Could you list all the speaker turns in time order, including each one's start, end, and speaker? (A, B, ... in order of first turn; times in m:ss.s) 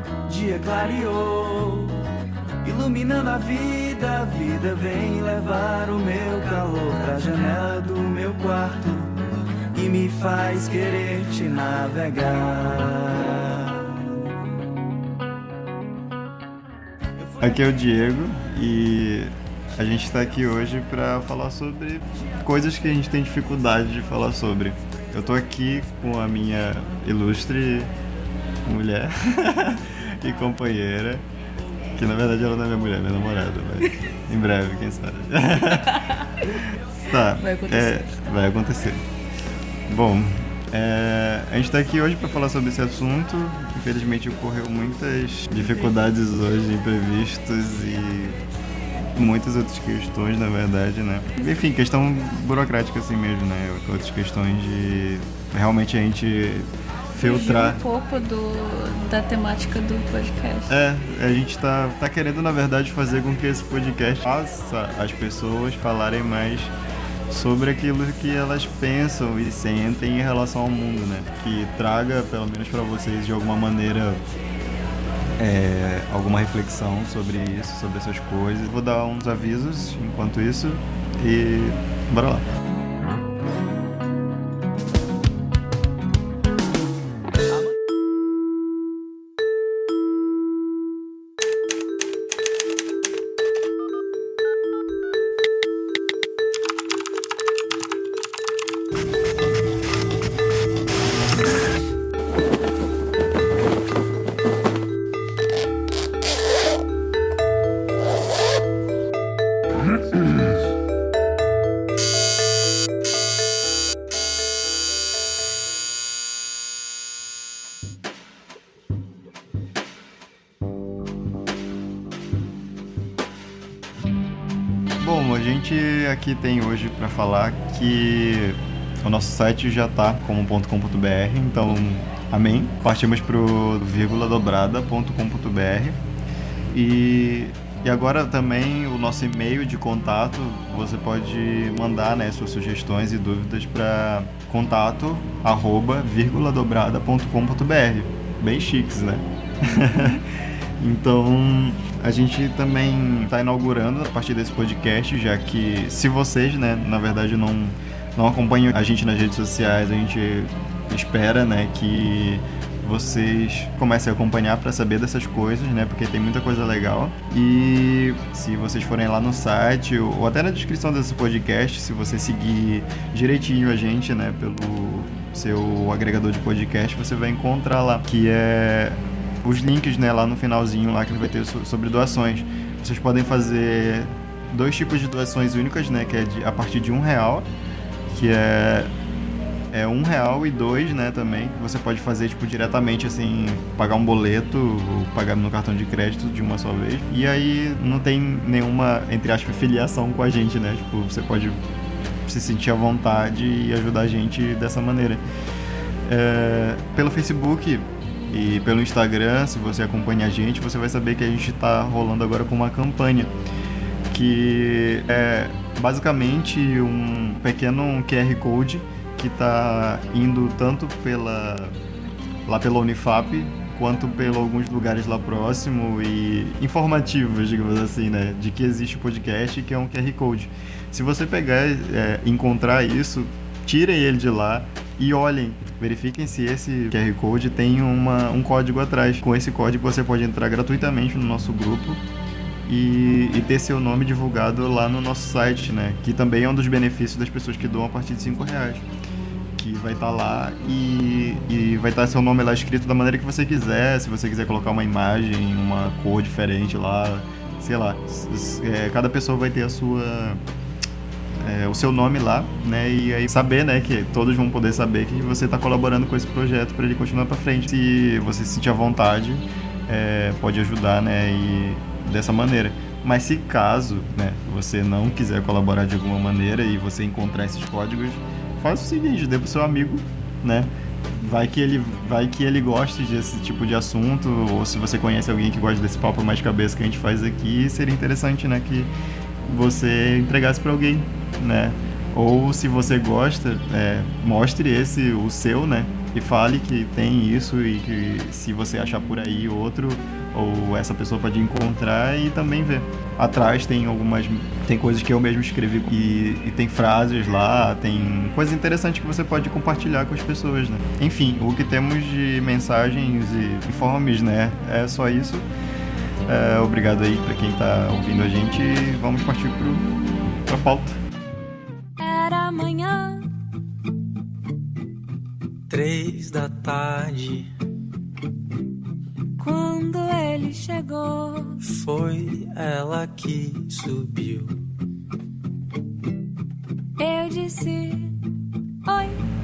0:00.2-0:01.9 A
0:02.6-0:09.1 A
0:09.7-0:13.1 A
0:17.4-0:27.9 B
0:28.6-0:31.2 B
0:31.9-0:36.0 B
0:35.8-0:36.3 C
0:36.6-0:39.0 B
0:37.4-0:38.1 C
0:39.9-0:48.4 B
0:49.1-0:57.8 B
0:57.1-1:00.7 C
1:00.7-1:06.7 B
1:07.3-1:14.2 B
1:15.4-1:22.4 B
2:05.0-2:16.0 B
2:16.7-3:07.5 B
3:08.1-3:08.9 B
3:09.7-3:21.6 B
3:22.2-3:25.2 B
3:26.0-3:33.3 B
3:34.1-3:41.8 B
3:42.5-4:02.0 B
4:02.6-4:08.8 B
4:09.6-4:20.4 B
4:21.4-4:48.9 B
4:49.4-5:15.5 B
5:16.2-5:19.8 B
5:20.4-5:21.0 B
5:22.0-5:23.3 D
5:25.7-5:27.5 E
5:29.4-5:31.6 D
5:31.6-5:34.6 E
5:37.0-5:38.2 D
5:38.8-5:39.2 D